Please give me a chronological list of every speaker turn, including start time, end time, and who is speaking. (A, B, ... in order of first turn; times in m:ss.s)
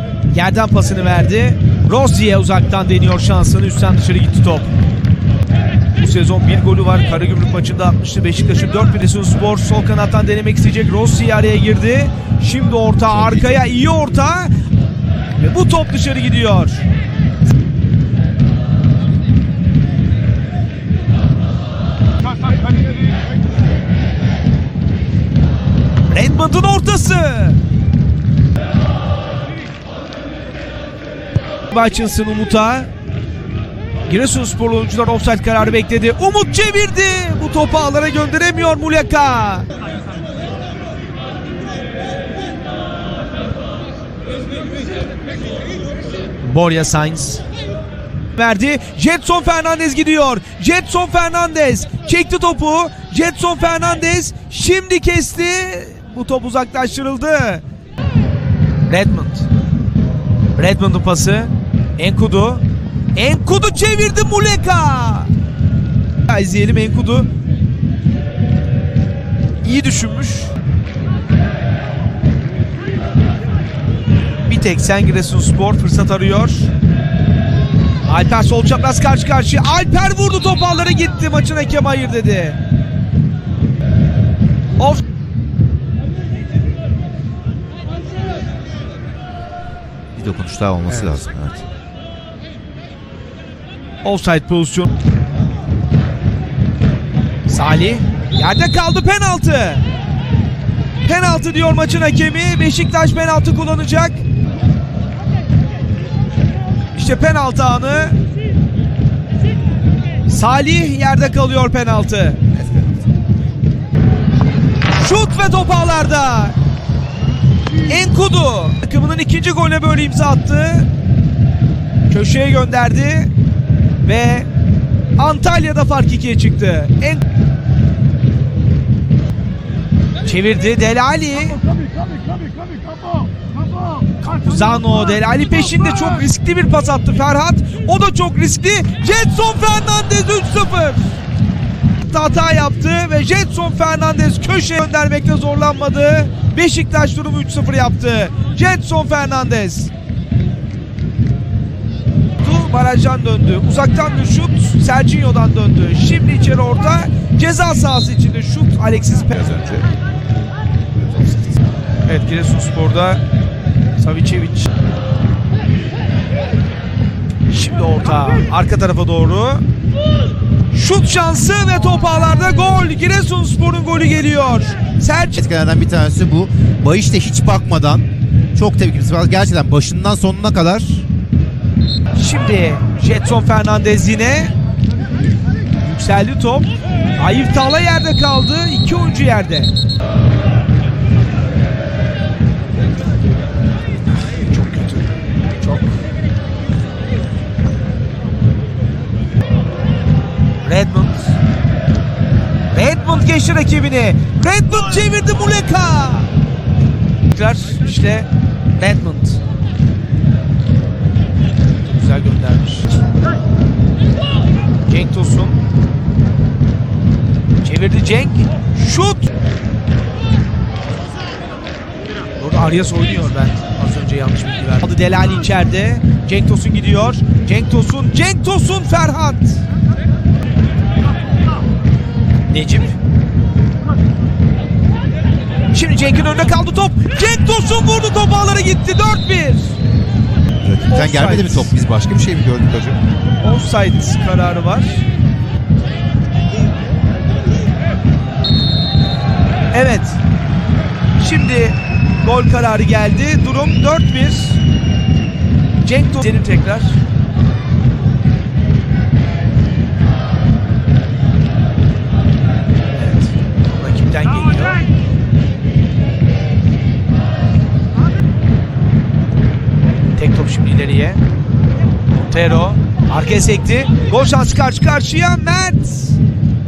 0:00.3-0:04.7 A
0:06.0-0:14.5 A
0:13.1-0:13.5 B
0:15.4-0:16.8 A
0:26.1-0:27.6 A
0:31.7-0:32.9 A
0:34.1-0:39.7 A
0:46.4-0:47.4 A
0:48.4-0:57.6 A
0:58.9-0:59.5 A
1:00.6-1:05.3 A
1:06.3-1:07.3 A
1:09.6-1:10.5 A
1:14.5-1:16.7 A
1:18.0-1:22.6 A
1:24.8-1:25.0 A
1:30.2-1:31.7 B
1:30.9-1:31.2 A
1:34.0-1:34.9 A
1:37.5-1:39.8 A
1:41.0-1:44.2 A
1:47.0-1:48.2 A
1:50.3-1:52.5 A
1:55.0-1:56.6 A
1:57.8-2:00.9 A
2:02.1-2:03.3 A
2:04.0-2:04.5 A
2:05.2-2:07.2 A
2:10.2-2:11.6 A
2:14.2-2:21.2 A
2:22.0-2:29.9 A
2:32.4-2:39.5 A
2:39.3-2:39.9 B
2:42.1-2:43.2 A
2:44.0-2:44.7 A
2:47.5-2:49.6 A
2:50.7-2:55.4 A
2:55.4-3:01.1 B
3:02.2-3:04.5 A
3:05.8-3:09.7 A
3:14.5-3:15.0 A
3:15.6-3:15.9 A
3:20.6-3:21.4 A
3:22.7-3:26.3 A
3:27.3-3:29.4 A
3:31.8-3:33.0 A
3:34.9-3:35.6 A
3:37.6-3:39.3 A
3:42.4-3:49.6 A
3:52.5-3:53.0 A
3:55.7-3:59.8 A
4:00.6-4:03.0 B
4:00.9-4:01.7 A
4:03.4-4:05.0 A
4:09.7-4:10.2 A
4:11.2-4:14.6 A
4:15.8-4:17.0 A
4:23.0-4:24.9 A
4:30.2-4:31.2 A
4:32.1-4:36.2 A